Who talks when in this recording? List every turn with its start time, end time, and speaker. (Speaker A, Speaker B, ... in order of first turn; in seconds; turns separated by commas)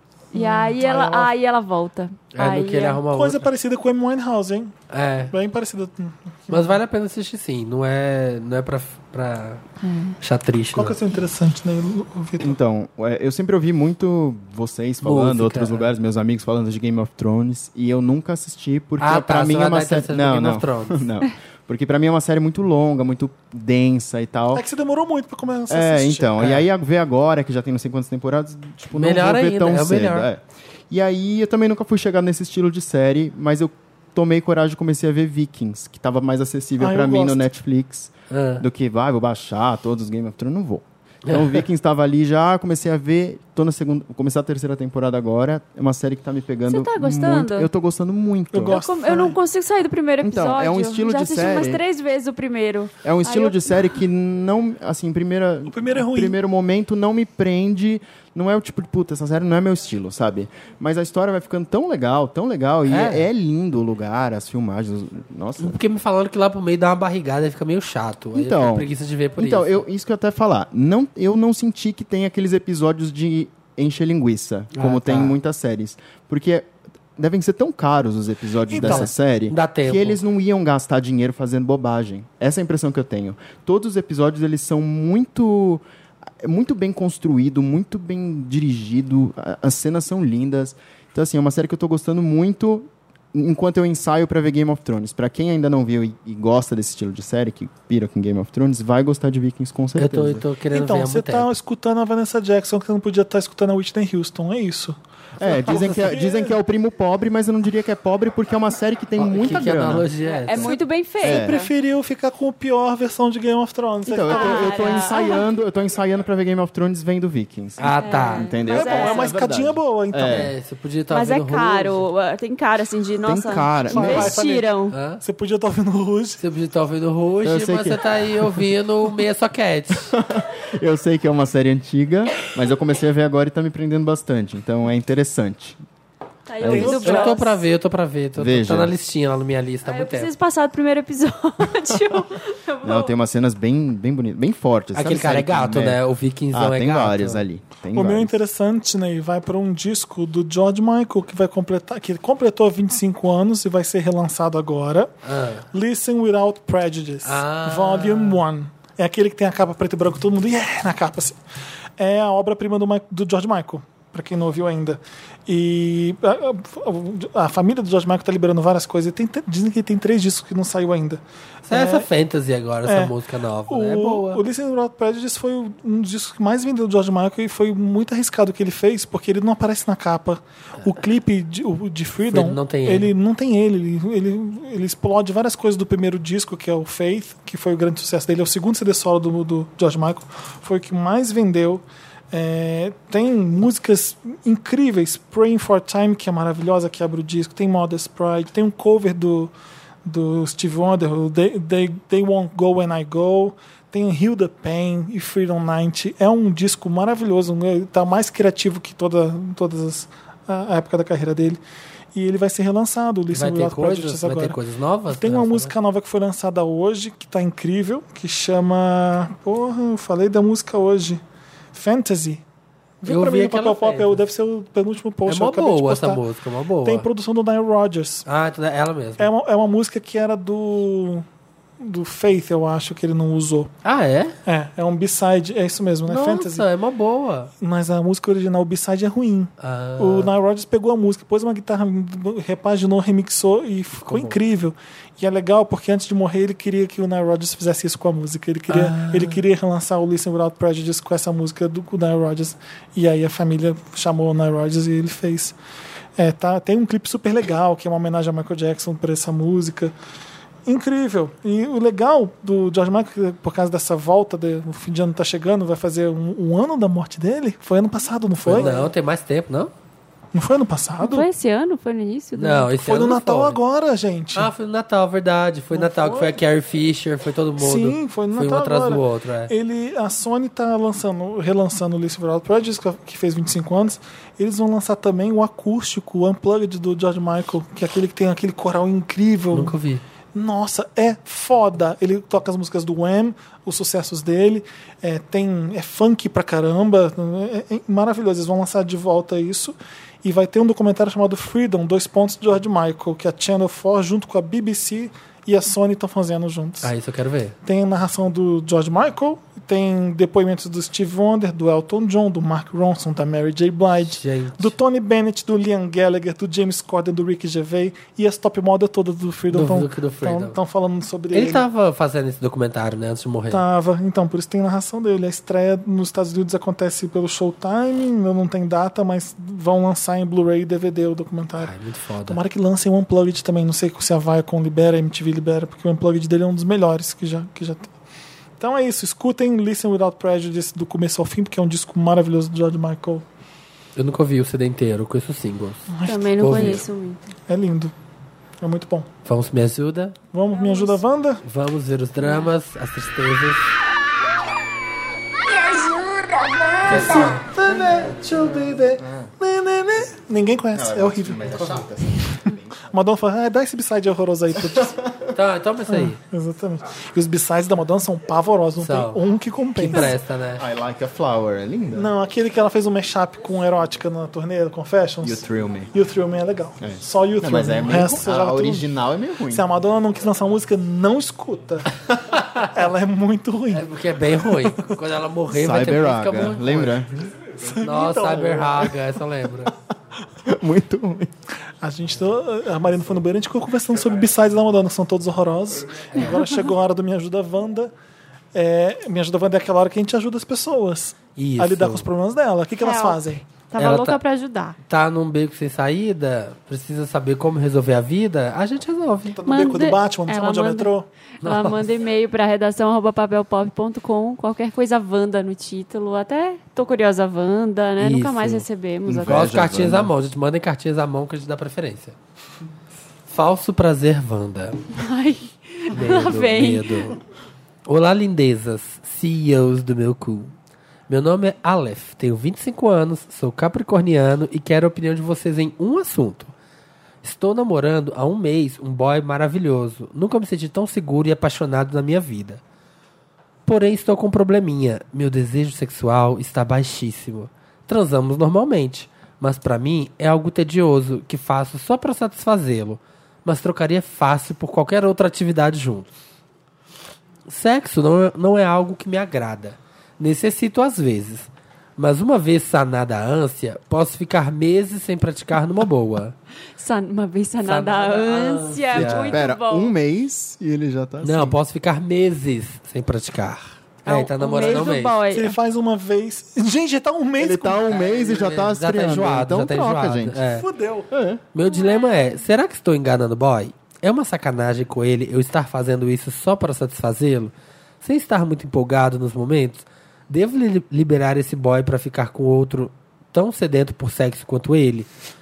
Speaker A: 0.3-3.0, Speaker B: 0.3-1.3, Speaker C: 2.4-3.5, Speaker B: 3.1-4.8, Speaker C: 4.9-5.3, Speaker B: 5.3-6.8, Speaker C: 6.5-9.6, Speaker A: 9.8-10.2, Speaker C: 10.2-11.0, Speaker B: 10.7-12.6, Speaker D: 12.4-24.6, Speaker C: 15.0-15.9, Speaker C: 19.0-21.1, Speaker B: 24.5-26.4, Speaker D: 25.7-48.8, Speaker C: 26.4-26.6, Speaker C: 28.9-30.3, Speaker B: 36.8-37.5, Speaker C: 38.3-38.6, Speaker C: 41.3-41.6, Speaker A: 46.7-47.7, Speaker B: 48.5-49.4, Speaker A: 48.7-53.7, Speaker D: 50.2-51.8, Speaker D: 53.0-65.8, Speaker B: 55.7-56.4, Speaker C: 62.9-63.3, Speaker C: 65.6-69.8, Speaker D: 68.3-85.8, Speaker C: 74.7-75.4, Speaker B: 78.7-79.1, Speaker C: 78.8-80.2, Speaker D: 86.4-100.5, Speaker C: 100.0-101.5, Speaker B: 100.7-106.6, Speaker D: 105.4-110.7, Speaker C: 109.2-110.8, Speaker A: 110.3-111.7, Speaker D: 111.2-111.6, Speaker B: 111.2-115.0, Speaker D: 114.1-120.5, Speaker A: 114.3-115.5, Speaker C: 117.8-118.5, Speaker A: 118.0-119.3, Speaker B: 118.7-120.5, Speaker C: 120.3-122.0, Speaker A: 121.1-125.0, Speaker D: 123.2-124.3, Speaker B: 123.9-124.7, Speaker C: 124.9-125.2, Speaker B: 125.2-126.4, Speaker C: 126.4-130.2, Speaker D: 127.4-128.0, Speaker D: 130.1-135.8, Speaker A: 136.5-137.6, Speaker D: 136.6-137.0, Speaker B: 136.7-137.4, Speaker C: 136.7-140.3, Speaker D: 138.4-138.9, Speaker A: 139.8-143.1, Speaker D: 142.8-146.0, Speaker C: 144.9-147.4, Speaker D: 146.5-148.4, Speaker B: 147.9-155.1, Speaker C: 155.2-155.7, Speaker B: 155.7-161.4, Speaker C: 157.2-158.4, Speaker B: 162.0-172.1, Speaker C: 171.7-174.4, Speaker B: 172.9-173.1, Speaker B: 173.7-199.5, Speaker C: 182.3-183.1, Speaker B: 200.1-211.6, Speaker B: 212.1-214.6, Speaker C: 213.3-215.7, Speaker B: 215.1-221.2, Speaker B: 221.7-222.4, Speaker B: 223.0-226.2, Speaker C: 223.1-224.2, Speaker C: 225.3-227.1, Speaker B: 226.8-228.3, Speaker C: 228.3-229.3, Speaker B: 229.2-231.2, Speaker B: 231.8-233.7, Speaker C: 233.8-234.3, Speaker B: 234.5-236.7, Speaker C: 236.1-237.5, Speaker B: 237.6-255.6, Speaker C: 239.6-240.3, Speaker C: 244.0-244.4, Speaker C: 248.7-249.4, Speaker B: 256.2-259.9, Speaker B: 260.7-268.9, Speaker C: 268.4-269.7, Speaker B: 270.3-271.3, Speaker A: 271.0-272.7, Speaker C: 272.4-273.6, Speaker B: 272.7-274.5, Speaker C: 274.3-279.5, Speaker B: 275.7-276.3, Speaker B: 277.6-289.8, Speaker C: 289.5-290.0, Speaker B: 290.3-306.9, Speaker C: 306.8-307.6, Speaker B: 307.6-321.6, Speaker C: 314.1-314.7, Speaker C: 319.5-320.6, Speaker C: 321.3-323.6, Speaker B: 323.5-331.7, Speaker C: 331.6-332.4, Speaker B: 332.3-337.9, Speaker B: 338.6-343.2, Speaker C: 344.0-345.9, Speaker B: 345.9-346.8, Speaker A: 346.0-347.2, Speaker C: 346.4-346.8, Speaker B: 347.5-347.9, Speaker B: 348.6-349.1, Speaker C: 349.2-350.2, Speaker B: 350.3-351.4, Speaker A: 350.5-351.0, Speaker C: 351.4-353.7, Speaker A: 352.2-352.5, Speaker E: 355.5-357.4, Speaker C: 356.9-357.4, Speaker B: 357.1-361.5, Speaker D: 360.7-362.8, Speaker C: 361.5-361.8, Speaker B: 362.9-365.0, Speaker C: 365.3-366.2, Speaker B: 365.9-370.2, Speaker C: 368.8-369.2, Speaker C: 369.8-370.6, Speaker D: 370.6-372.1, Speaker B: 371.9-378.9, Speaker D: 375.2-375.9, Speaker D: 376.8-379.7, Speaker B: 379.5-382.0, Speaker C: 382.4-382.7, Speaker B: 382.7-383.9, Speaker C: 383.7-387.0, Speaker D: 385.5-387.3, Speaker B: 387.6-388.9, Speaker C: 387.8-389.7, Speaker D: 390.4-391.3, Speaker B: 391.8-397.9, Speaker B: 398.5-403.4, Speaker C: 401.4-402.1, Speaker A: 402.8-404.8, Speaker C: 403.8-404.2, Speaker C: 404.9-409.4, Speaker B: 409.3-411.1, Speaker A: 409.5-419.5, Speaker C: 411.4-411.8, Speaker C: 418.0-418.6, Speaker D: 419.1-420.1, Speaker C: 419.2-422.1, Speaker C: 423.3-424.8, Speaker A: 424.9-427.1, Speaker C: 425.9-427.2, Speaker C: 427.9-430.5, Speaker C: 431.1-436.5, Speaker C: 437.2-442.6, Speaker C: 443.7-456.1, Speaker C: 457.5-466.4, Speaker A: 466.8-469.9, Speaker C: 467.6-469.4, Speaker D: 468.9-471.6, Speaker C: 471.2-475.2, Speaker A: 474.1-475.6, Speaker B: 474.6-477.9, Speaker D: 477.4-480.4, Speaker C: 477.9-480.7, Speaker B: 480.5-481.1, Speaker D: 481.1-481.4, Speaker C: 481.5-495.1, Speaker A: 481.7-482.2